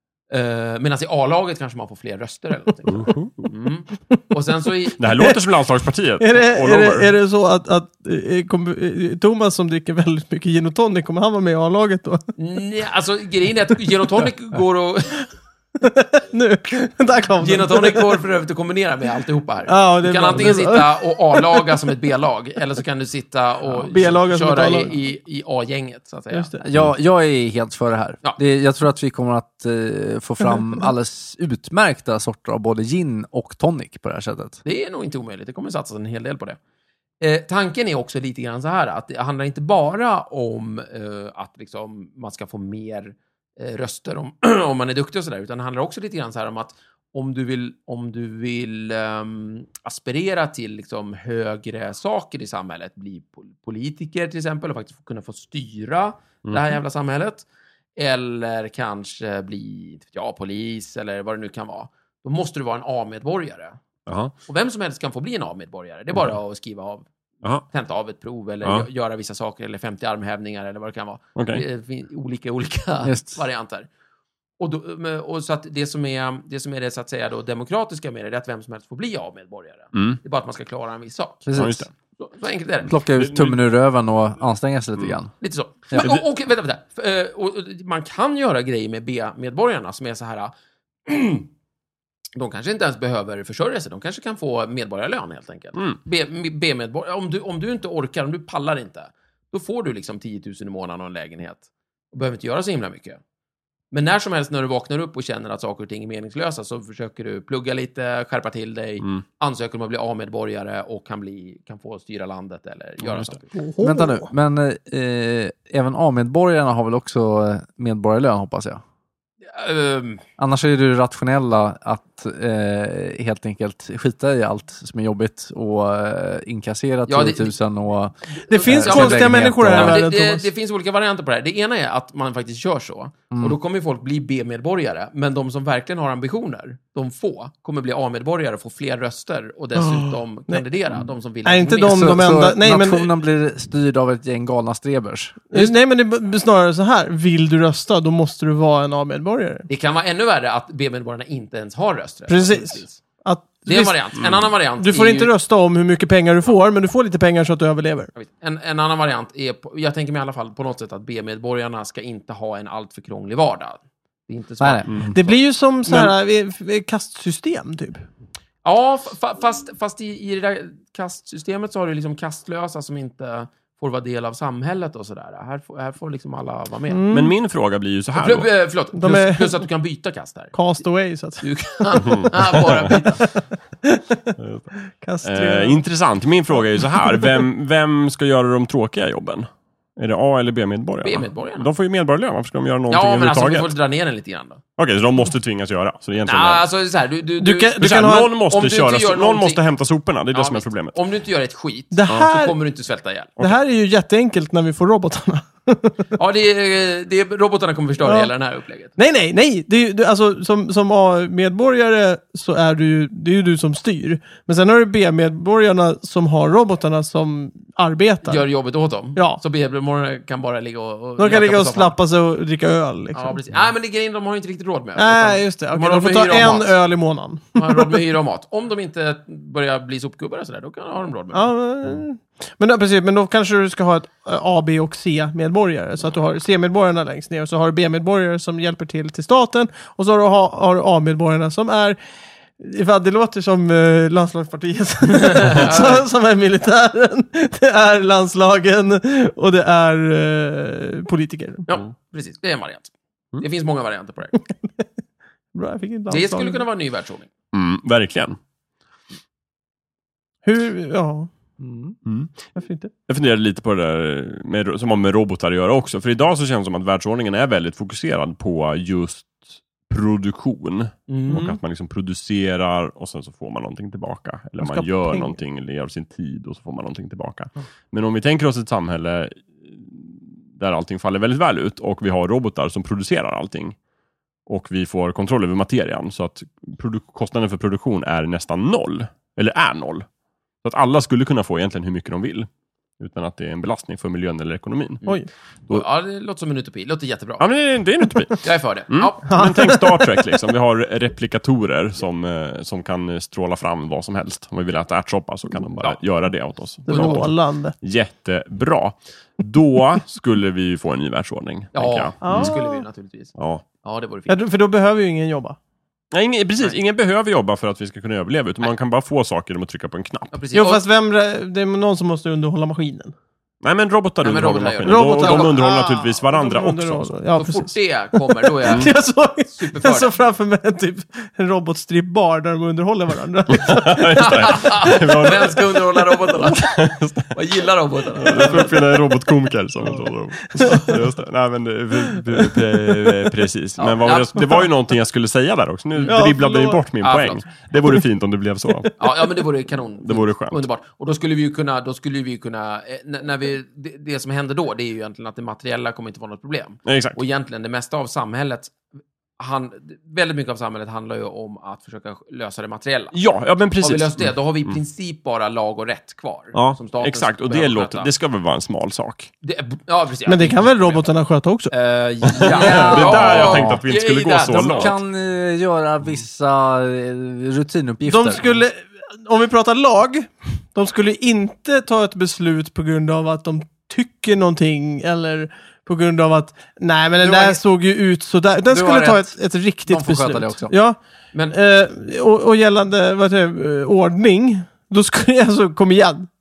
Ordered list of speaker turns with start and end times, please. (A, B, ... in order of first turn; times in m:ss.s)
0:00.3-0:05.0 A
0:02.8-0:03.5 B
0:05.0-0:07.1 B
0:06.2-0:12.3 C
0:12.4-0:15.3 A
0:15.8-0:18.2 C
0:17.4-0:26.5 A
0:19.7-0:21.6 C
0:23.7-0:24.9 C
0:26.3-0:26.6 C
0:26.6-0:34.6 D
0:34.6-0:36.6 A
0:37.2-1:03.8 A
0:56.4-0:56.8 B
1:04.0-1:04.3 B
1:04.4-1:07.1 A
1:07.6-1:13.9 A
1:11.4-1:11.6 B
1:13.0-1:13.4 D
1:14.6-1:21.4 A
1:19.9-1:20.2 B
1:21.4-1:21.9 D
1:21.5-1:21.9 B
1:22.2-1:22.9 A
1:22.8-1:25.3 D
1:23.2-1:23.6 B
1:25.4-1:30.5 A
1:26.0-1:26.2 B
1:31.0-1:31.5 A
1:32.4-1:43.2 A
1:43.9-1:53.5 A
1:53.0-1:53.3 B
1:53.5-1:54.3 C
1:53.8-1:58.8 D
1:59.5-2:00.2 A
2:00.4-2:10.0 D
2:07.1-2:07.5 A
2:08.3-2:22.2 A
2:08.5-2:10.4 C
2:13.3-2:13.6 D
2:19.8-2:20.6 C
2:21.4-2:23.1 C
2:21.8-2:25.5 D
2:25.5-2:29.7 C
2:29.7-2:33.0 A
2:32.3-2:34.0 C
2:33.6-2:35.3 A
2:34.8-2:38.1 C
2:38.1-2:45.4 A
2:44.6-2:45.2 D
2:45.1-2:48.0 C
2:48.6-2:57.0 A
2:56.9-2:57.3 C
2:57.1-2:58.5 B
2:58.1-3:00.5 A
2:58.9-2:59.6 C
3:00.5-3:02.2 C
3:01.4-3:03.3 A
3:02.0-3:02.8 B
3:03.1-3:04.3 C
3:04.4-3:04.7 B
3:05.0-3:05.8 C
3:05.2-3:13.7 B
3:06.5-3:07.4 C
3:11.0-3:11.7 A
3:12.9-3:14.6 A
3:14.8-3:16.6 B
3:16.2-3:19.6 A
3:17.4-3:18.3 C
3:17.8-3:21.0 B
3:20.3-3:23.4 A
3:21.9-3:22.6 C
3:22.1-3:22.3 B
3:23.4-3:26.0 C
3:26.1-3:28.9 A
3:28.0-3:28.3 C
3:29.0-3:38.4 C
3:38.2-3:41.9 A
3:39.2-3:39.4 C
3:41.2-3:43.4 C
3:43.1-3:46.7 A
3:45.0-3:48.0 C
3:47.5-3:51.5 A
3:51.3-4:02.0 C
4:02.6-4:11.6 C
4:05.2-4:06.0 A
4:11.7-4:14.3 A
4:15.5-4:16.6 C
4:16.1-4:17.3 A
4:17.5-4:18.4 B
4:20.4-4:21.3 C
4:21.6-4:21.9 D
4:22.0-4:22.3 B
4:22.6-4:22.9 C
4:23.1-4:43.8 B
4:31.1-4:31.4 A
4:31.3-4:31.6 C
4:34.6-4:35.4 C
4:44.5-4:50.0 B
4:50.6-4:55.0 B
4:55.0-4:57.4 A
4:57.4-5:12.5 B
4:58.4-4:59.4 A
4:59.3-5:00.2 C
5:06.9-5:07.2 A
5:06.9-5:07.7 C
5:11.7-5:14.4 A
5:12.2-5:12.8 C
5:13.4-5:13.6 B
5:14.3-5:15.6 C
5:16.1-5:20.3 B
5:20.3-5:20.8 A
5:20.5-5:23.1 C
5:23.6-5:27.2 B
5:24.2-5:25.6 A
5:24.8-5:34.3 C
5:27.3-5:30.1 A
5:33.5-5:37.3 B
5:34.1-5:38.9 A
5:38.2-5:49.3 B
5:40.0-5:41.0 C
5:42.1-5:43.3 C
5:43.8-5:44.7 A
5:45.9-5:46.2 A
5:46.0-5:46.8 C
5:47.0-5:47.4 A
5:49.0-5:58.7 A
5:50.0-5:50.6 B
5:56.8-5:57.2 B
5:59.4-6:03.2 A
6:03.1-6:04.7 B
6:03.8-6:08.1 A
6:06.5-6:09.3 B
6:09.4-6:11.0 A
6:10.2-6:11.7 C
6:11.7-6:15.0 A
6:12.3-6:15.0 B
6:12.5-6:13.8 D
6:14.6-6:18.5 D
6:18.0-6:31.0 C
6:27.2-6:27.6 A
6:28.7-6:30.7 D
6:31.5-6:36.3 C